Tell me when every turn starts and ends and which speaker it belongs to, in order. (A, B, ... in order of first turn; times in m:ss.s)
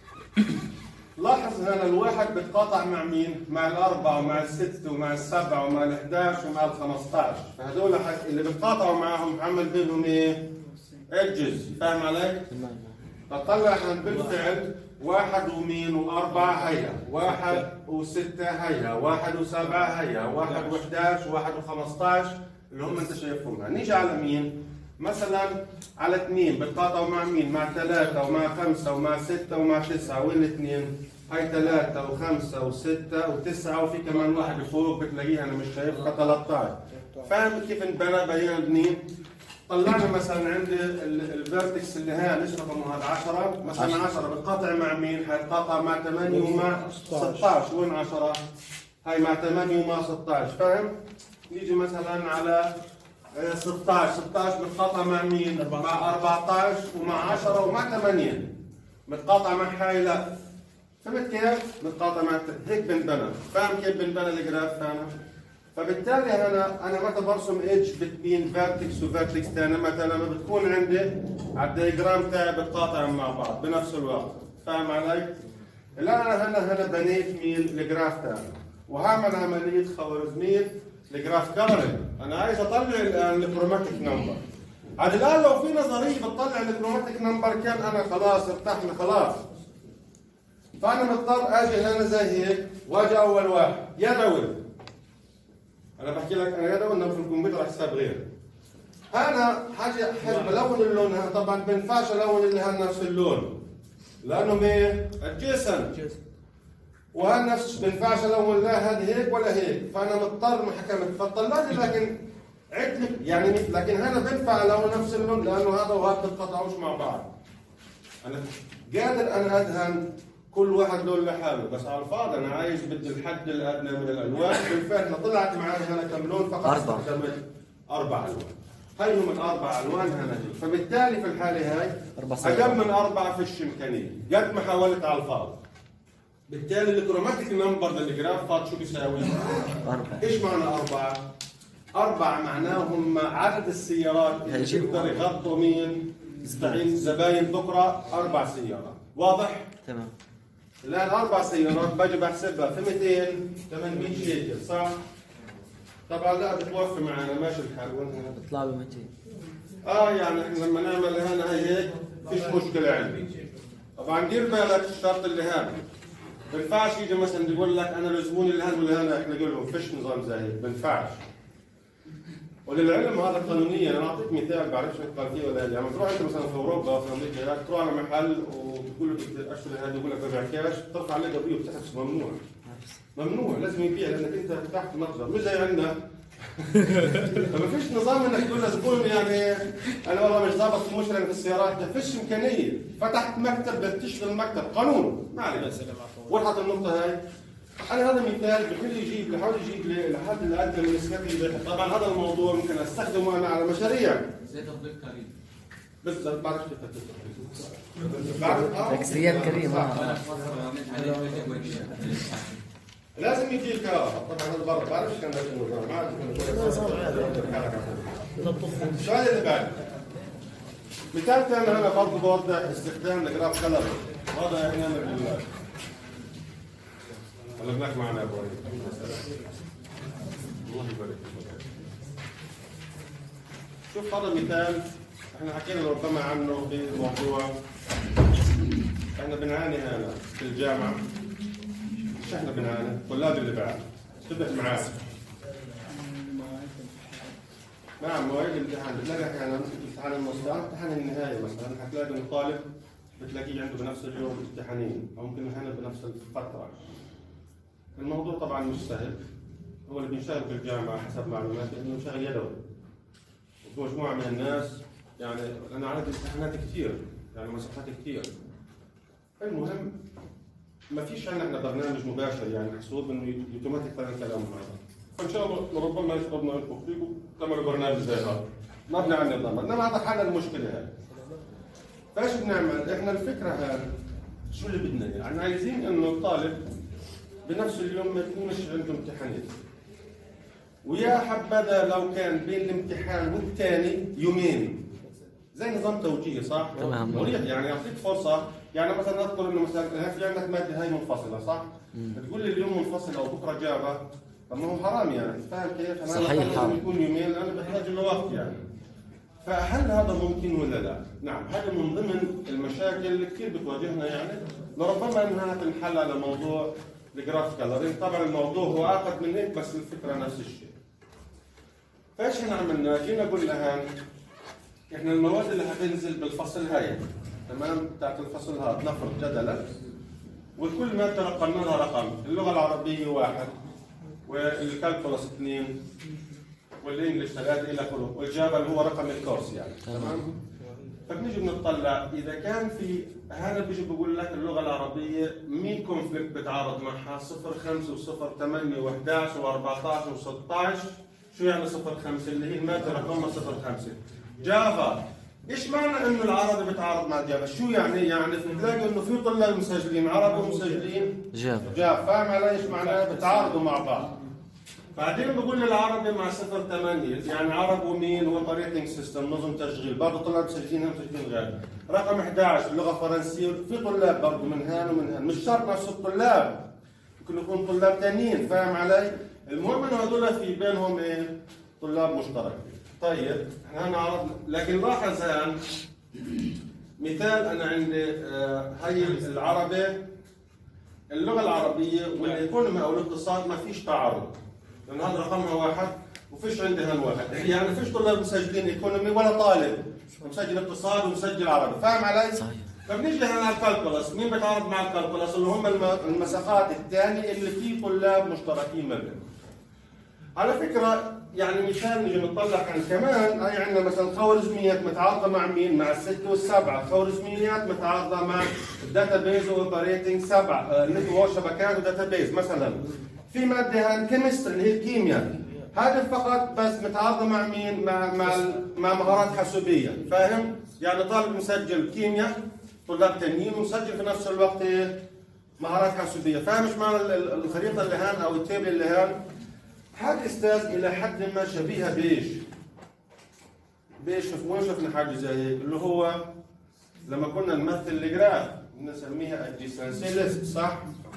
0:01.2-0:10.5 A
0:11.1-0:12.5 A
0:12.5-0:13.0 B
0:13.3-0:39.1 A
0:39.7-0:48.4 A
0:49.0-0:50.9 A
0:51.5-0:52.7 A
0:53.3-0:58.5 A
0:59.1-1:00.3 A
1:01.0-1:05.1 A
1:05.7-1:15.4 A
1:16.0-1:24.4 A
1:25.0-1:29.4 A
1:30.8-1:34.6 A
1:36.0-1:38.2 A
1:39.1-1:43.6 A
1:44.2-1:46.0 A
1:47.1-1:52.1 A
1:52.7-1:57.3 A
1:58.2-2:15.6 A
2:06.6-2:07.1 B
2:12.2-2:12.8 B
2:16.5-2:21.2 A
2:19.8-2:20.3 B
2:21.9-2:29.7 A
2:24.5-2:25.2 B
2:26.4-2:27.0 B
2:29.8-2:30.1 B
2:30.8-2:35.0 A
2:36.1-2:38.4 A
2:38.4-2:39.1 B
2:39.8-2:43.3 A
2:44.0-2:45.8 A
2:46.5-2:51.2 A
2:52.6-3:02.4 A
3:02.6-3:02.9 B
3:03.1-3:06.0 A
3:06.6-3:17.2 A
3:17.9-3:24.3 A
3:24.4-3:25.3 C
3:26.0-3:30.0 A
3:28.7-3:30.2 B
3:29.6-3:32.6 C
3:33.2-3:39.8 A
3:41.1-3:45.5 A
3:47.6-3:49.3 A
3:50.6-3:51.6 A
3:53.9-3:54.8 A
3:55.3-3:57.5 A
3:59.2-4:01.0 A
4:02.2-4:05.0 A
4:08.0-4:12.6 A
4:13.2-4:16.8 A
4:18.0-4:19.2 A
4:19.9-4:22.6 A
4:23.6-4:28.3 A
4:29.4-4:30.0 A
4:30.9-4:40.9 A
4:42.1-4:43.9 A
4:44.5-4:46.6 A
4:47.5-4:49.5 A
4:50.8-4:54.9 A
4:55.5-5:08.6 A
4:56.8-4:57.4 B
5:06.1-5:06.8 B
5:09.4-5:20.7 A
5:22.2-5:23.9 A
5:24.9-5:29.7 A
5:30.6-5:33.5 A
5:34.2-5:35.8 A
5:36.8-5:40.4 A
5:39.9-5:40.2 B
5:41.1-6:04.2 A
6:01.3-6:01.7 B
6:04.9-6:16.6 A
6:17.2-6:25.6 A
6:27.0-6:30.0 A
6:31.1-6:49.2 A
6:42.4-6:42.7 B
6:50.4-7:15.0 A
7:15.6-7:19.2 A
7:19.9-7:22.4 A
7:24.0-7:26.3 A
7:27.0-7:30.8 A